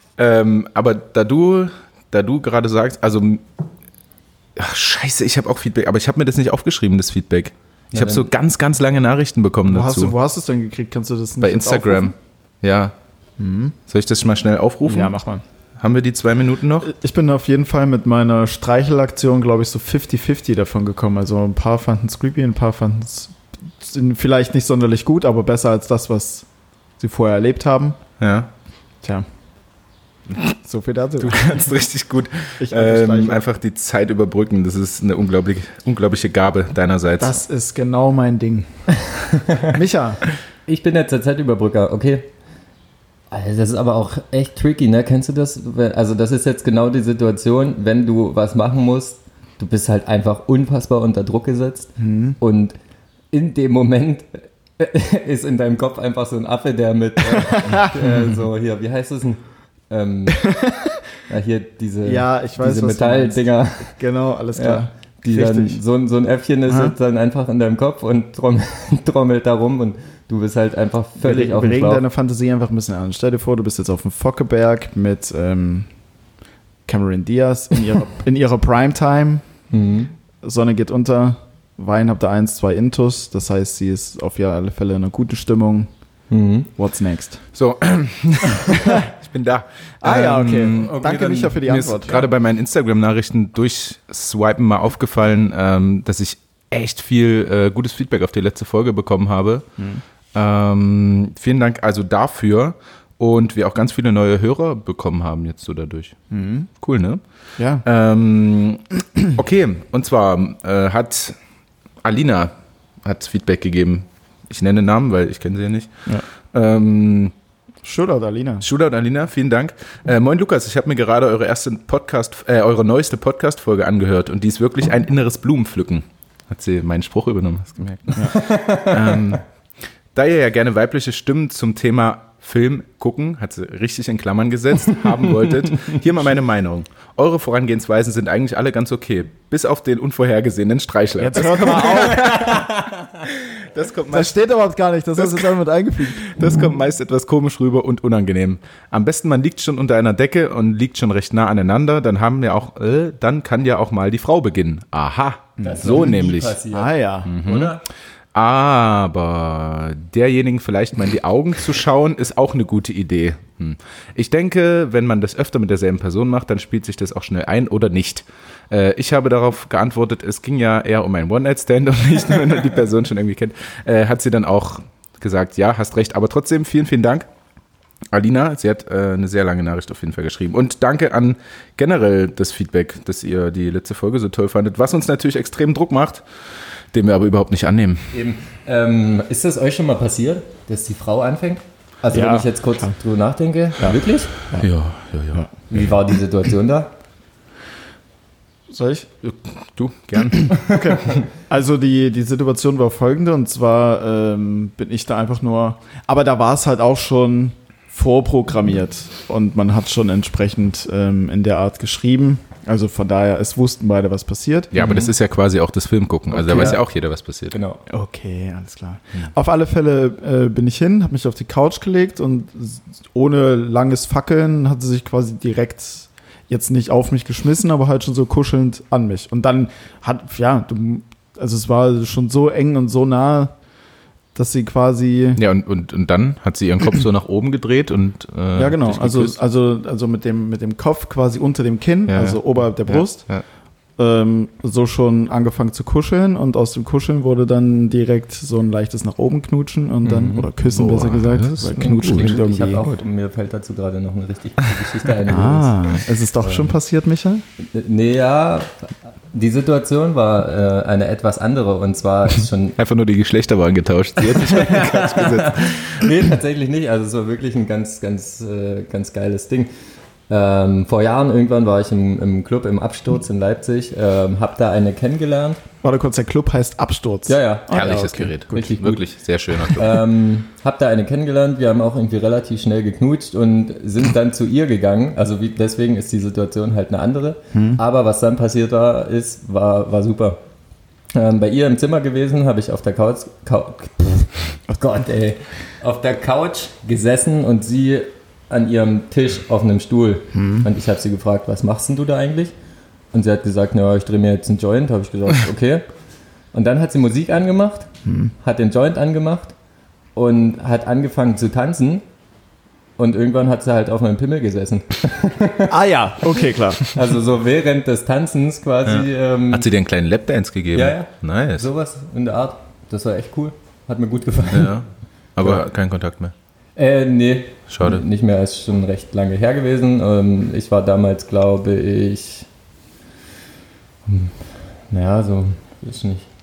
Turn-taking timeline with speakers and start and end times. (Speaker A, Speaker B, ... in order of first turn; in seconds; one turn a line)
Speaker A: 0.2-3.4
Speaker A: 4.5-10.1
Speaker B: 7.9-8.3
Speaker C: 9.7-12.1
Speaker A: 11.4-12.9
Speaker C: 13.4-13.8
Speaker A: 13.9-15.1
Speaker C: 14.9-15.4
Speaker A: 15.8-16.9
Speaker C: 16.8-26.5
Speaker C: 27.0-28.0
Speaker A: 28.2-28.5
Speaker C: 30.6-31.5
Speaker A: 31.2-37.4
Speaker C: 32.6-33.5
Speaker C: 37.2-38.7
Speaker B: 39.1-39.7
Speaker C: 39.6-40.2
Speaker B: 40.7-42.3
Speaker B: 43.3-52.8
Speaker C: 52.0-52.4
Speaker B: 53.3-60.5
Speaker C: 57.3-58.3
Speaker C: 60.4-61.0
Speaker B: 61.3-64.0
Speaker C: 62.0-65.8
Speaker B: 64.5-72.0
Speaker C: 66.7-67.0
Speaker C: 71.2-75.9
Speaker C: 76.9-79.4
Speaker B: 79.7-80.1
Speaker C: 80.4-85.9
Speaker B: 86.3-86.7
Speaker C: 86.8-87.4
Speaker A: 87.5-91.0
Speaker C: 88.7-89.0
Speaker C: 90.0-92.3
Speaker B: 90.7-91.7
Speaker A: 91.6-99.6
Speaker A: 100.3-106.1
Speaker C: 106.3-106.7
Speaker A: 106.8-107.2
Speaker C: 107.6-107.8
Speaker A: 107.8-111.4
Speaker A: 112.0-112.5
Speaker A: 113.0-115.9
Speaker A: 116.5-117.3
Speaker C: 117.8-118.7
Speaker A: 118.6-129.4
Speaker B: 128.3-129.3
Speaker A: 130.1-142.6
Speaker C: 141.2-142.7
Speaker B: 142.1-143.1
Speaker A: 143.2-144.4
Speaker C: 144.1-146.3
Speaker A: 145.2-145.5
Speaker A: 146.0-156.6
Speaker C: 155.6-157.3
Speaker B: 155.6-157.8
Speaker A: 157.3-157.7
Speaker A: 158.3-177.3
Speaker A: 178.1-186.2
Speaker A: 186.9-188.1
Speaker B: 188.1-194.3
Speaker C: 192.1-192.9
Speaker A: 194.5-195.5
Speaker B: 195.7-196.9
Speaker C: 198.7-199.1
Speaker A: 199.2-201.2
Speaker C: 200.4-214.9
Speaker A: 214.7-217.6
Speaker B: 214.8-215.1
Speaker C: 216.3-216.8
Speaker B: 216.4-216.8
Speaker B: 217.5-217.8
Speaker C: 217.9-233.5
Speaker C: 234.3-235.4
Speaker A: 235.4-239.3
Speaker C: 238.6-243.3
Speaker A: 242.1-243.4
Speaker C: 244.0-252.9
Speaker B: 250.0-250.5
Speaker A: 250.7-252.4
Speaker B: 251.8-255.8
Speaker C: 255.3-257.4
Speaker B: 256.4-256.7
Speaker B: 257.6-262.8
Speaker A: 262.8-266.2
Speaker B: 264.2-269.7
Speaker B: 270.3-275.6
Speaker C: 275.8-278.7
Speaker B: 277.3-279.0
Speaker A: 277.7-280.0
Speaker B: 279.7-290.4
Speaker C: 287.5-287.8
Speaker B: 291.1-302.5
Speaker C: 300.3-300.7
Speaker B: 303.1-305.8
Speaker B: 306.5-307.9
Speaker C: 308.1-308.3
Speaker B: 308.4-309.5
Speaker B: 310.1-312.0
Speaker B: 313.0-315.8
Speaker C: 315.7-316.8
Speaker B: 316.9-319.7
Speaker A: 318.9-321.7
Speaker B: 320.7-324.7
Speaker A: 324.5-326.3
Speaker B: 326.8-332.5
Speaker A: 327.7-328.0
Speaker B: 334.1-336.3